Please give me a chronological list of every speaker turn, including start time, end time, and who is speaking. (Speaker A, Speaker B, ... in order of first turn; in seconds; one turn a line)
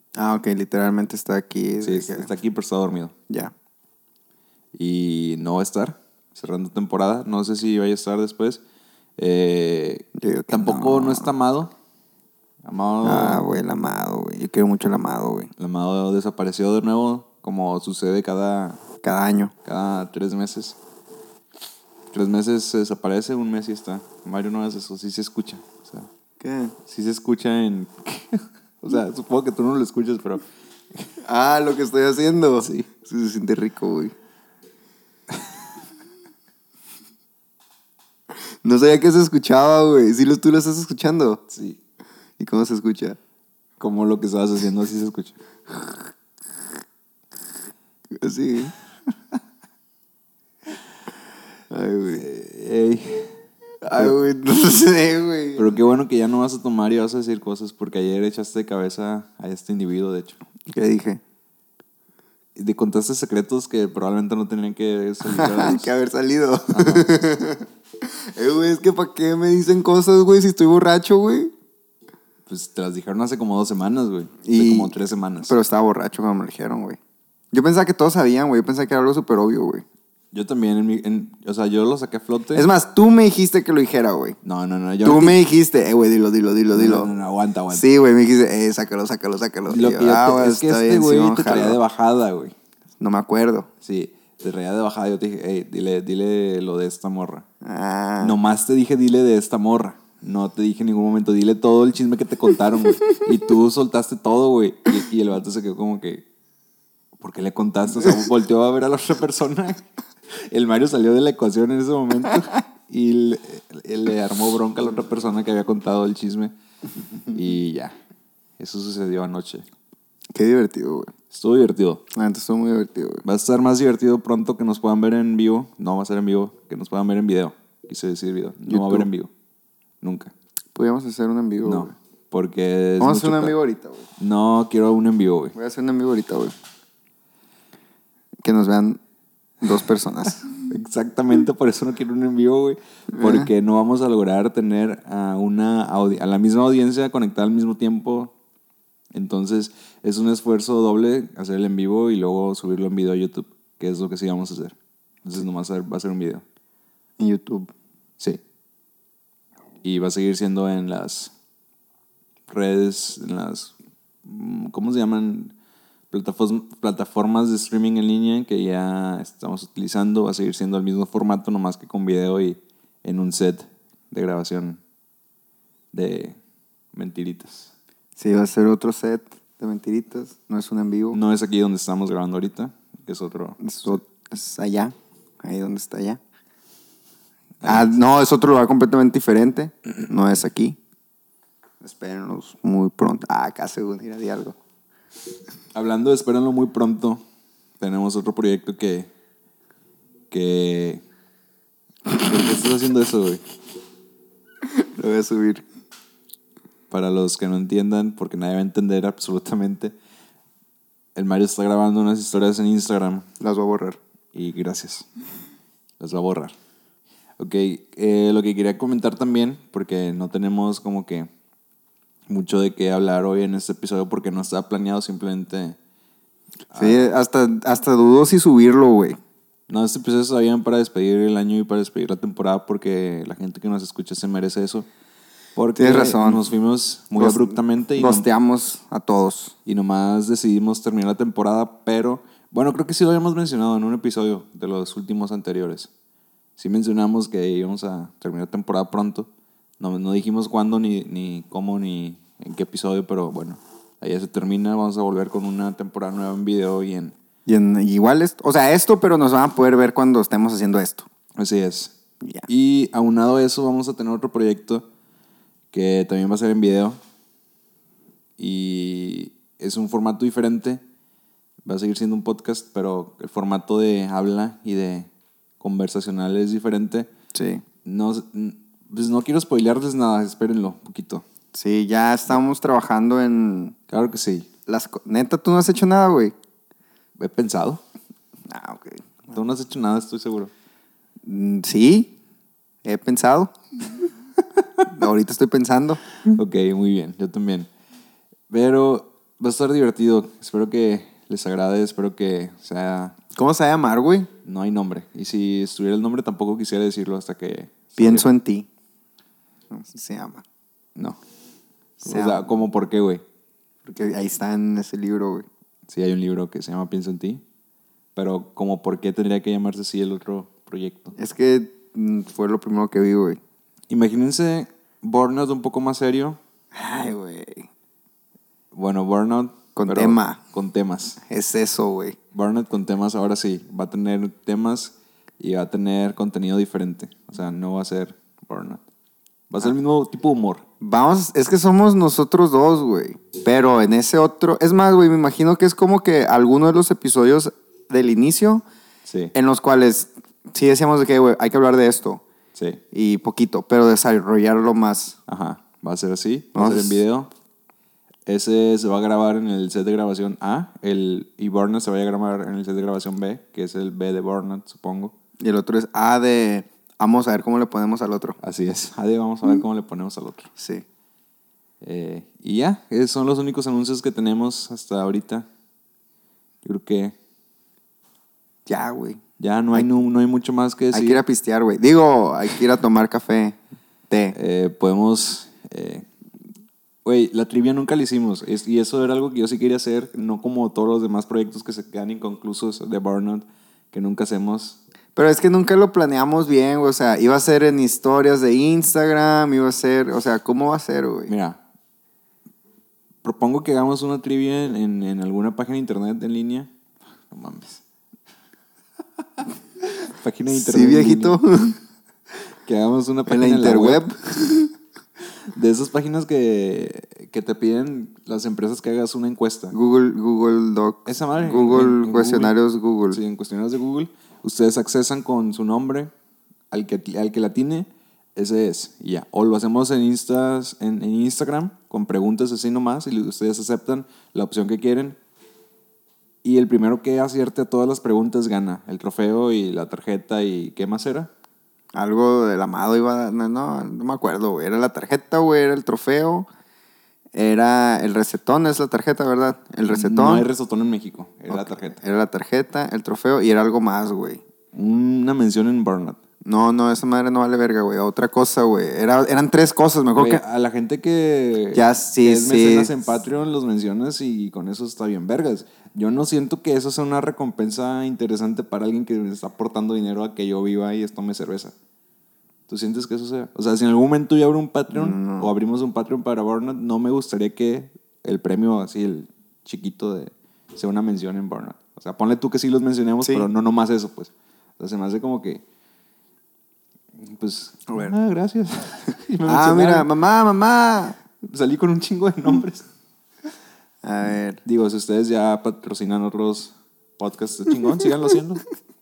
Speaker A: 0.1-2.3
Speaker B: 1.8-3.1
Speaker B: 4.7-8.6
Speaker B: 9.2-11.7
Speaker A: 10.1-11.3
Speaker B: 12.6-13.4
Speaker A: 13.0-15.5
Speaker B: 15.6-18.8
Speaker A: 19.0-19.5
Speaker B: 19.6-20.8
Speaker B: 22.1-26.1
Speaker A: 26.4-26.7
Speaker B: 26.9-30.4
Speaker A: 31.2-34.1
Speaker B: 32.6-32.9
Speaker A: 38.6-41.4
Speaker B: 41.5-41.8
Speaker A: 42.4-43.2
Speaker B: 43.8-45.4
Speaker A: 48.1-48.7
Speaker A: 51.7-52.2
Speaker B: 52.1-53.4
Speaker A: 53.8-55.8
Speaker B: 55.5-60.4
Speaker A: 60.7-61.2
Speaker B: 62.5-65.9
Speaker A: 65.2-71.5
Speaker B: 66.7-67.0
Speaker B: 72.5-75.5
Speaker A: 74.4-74.9
Speaker A: 75.5-77.0
Speaker A: 77.5-79.8
Speaker B: 80.3-82.7
Speaker A: 82.5-84.4
Speaker B: 84.4-85.4
Speaker A: 85.0-87.1
Speaker B: 86.7-87.8
Speaker A: 87.7-91.8
Speaker B: 89.7-92.5
Speaker A: 93.0-93.7
Speaker B: 93.8-97.4
Speaker A: 97.6-98.3
Speaker B: 98.2-106.2
Speaker B: 107.2-109.8
Speaker B: 110.5-116.5
Speaker B: 117.3-117.9
Speaker B: 118.6-119.6
Speaker A: 120.3-121.1
Speaker B: 121.3-122.0
Speaker A: 122.1-123.2
Speaker B: 123.2-129.3
Speaker A: 128.7-129.1
Speaker B: 130.0-130.3
Speaker A: 130.7-131.9
Speaker B: 131.6-133.5
Speaker A: 133.0-134.1
Speaker B: 134.2-135.6
Speaker A: 135.5-136.5
Speaker A: 138.4-139.0
Speaker A: 139.6-140.5
Speaker B: 140.7-148.3
Speaker A: 143.1-143.5
Speaker B: 149.1-156.4
Speaker A: 157.2-157.7
Speaker B: 159.8-161.3
Speaker B: 162.5-163.7
Speaker B: 164.2-165.5
Speaker B: 166.1-174.8
Speaker B: 175.9-176.4
Speaker B: 176.9-177.7
Speaker A: 178.2-181.2
Speaker B: 181.1-184.0
Speaker A: 183.6-186.2
Speaker B: 187.6-187.9
Speaker A: 187.6-190.8
Speaker A: 191.8-194.6
Speaker B: 195.7-197.2
Speaker B: 197.8-199.1
Speaker B: 200.3-201.0
Speaker B: 202.1-203.4
Speaker A: 204.6-205.6
Speaker B: 206.9-209.9
Speaker B: 211.1-213.3
Speaker A: 213.4-214.0
Speaker B: 214.3-215.1
Speaker B: 216.0-216.5
Speaker B: 217.4-221.3
Speaker B: 222.3-225.8
Speaker B: 226.7-227.1
Speaker A: 226.8-229.2
Speaker B: 229.7-234.9
Speaker B: 235.6-238.3
Speaker A: 235.8-236.4
Speaker A: 237.2-239.5
Speaker B: 239.7-245.9
Speaker B: 246.6-249.3
Speaker B: 249.8-257.1
Speaker A: 257.4-261.1
Speaker B: 261.4-261.9
Speaker B: 262.5-264.9
Speaker B: 265.7-267.0
Speaker B: 268.4-270.8
Speaker B: 271.6-277.1
Speaker A: 277.3-277.6
Speaker B: 277.8-281.2
Speaker A: 281.5-283.8
Speaker B: 283.9-284.5
Speaker A: 284.7-286.3
Speaker B: 287.2-287.8
Speaker A: 288.5-289.3
Speaker B: 289.3-290.5
Speaker A: 291.2-292.1
Speaker A: 292.8-293.5
Speaker A: 294.9-296.0
Speaker B: 296.3-297.7
Speaker B: 298.5-303.1
Speaker A: 303.3-304.3
Speaker B: 304.4-308.3
Speaker A: 308.0-308.7
Speaker A: 309.7-310.4
Speaker A: 312.0-312.5
Speaker B: 312.0-313.2
Speaker A: 313.8-315.5
Speaker B: 315.9-317.4
Speaker B: 318.1-321.1
Speaker A: 321.2-323.4
Speaker B: 323.9-326.4
Speaker A: 326.7-327.7
Speaker B: 328.7-331.2
Speaker A: 329.8-330.4
Speaker A: 331.2-332.1
Speaker B: 332.3-338.8
Speaker B: 339.5-340.6
Speaker A: 340.8-348.6
Speaker B: 349.1-349.3
Speaker A: 349.3-352.2
Speaker B: 352.5-352.8
Speaker A: 352.9-355.2
Speaker B: 355.3-357.3
Speaker A: 356.5-357.0
Speaker B: 358.3-365.1
Speaker A: 365.4-368.4
Speaker B: 368.4-370.5
Speaker A: 370.6-370.9
Speaker B: 371.8-375.5
Speaker B: 376.6-377.1
Speaker A: 378.6-379.2
Speaker B: 379.4-381.2
Speaker A: 380.9-383.6
Speaker A: 384.1-384.4
Speaker B: 384.3-386.1
Speaker B: 387.0-394.8
Speaker A: 395.1-401.3
Speaker B: 401.3-401.6
Speaker B: 403.2-406.7
Speaker B: 407.3-407.8
Speaker B: 409.8-411.4
Speaker A: 410.5-411.8
Speaker B: 412.6-414.0
Speaker A: 413.3-414.7
Speaker B: 415.5-419.7
Speaker A: 419.7-423.2
Speaker B: 421.1-422.6
Speaker B: 423.1-426.1
Speaker B: 426.7-435.2
Speaker B: 436.4-441.3
Speaker A: 441.9-446.5
Speaker A: 447.3-450.4
Speaker B: 449.9-452.0
Speaker A: 451.5-454.4
Speaker B: 454.7-456.2
Speaker A: 456.4-460.4
Speaker B: 460.1-471.7
Speaker A: 461.7-462.9
Speaker B: 472.7-485.6
Speaker A: 474.9-475.5
Speaker A: 483.2-483.5
Speaker B: 487.2-490.1
Speaker A: 489.5-491.2
Speaker B: 491.4-492.9
Speaker A: 494.0-494.6
Speaker B: 494.6-498.6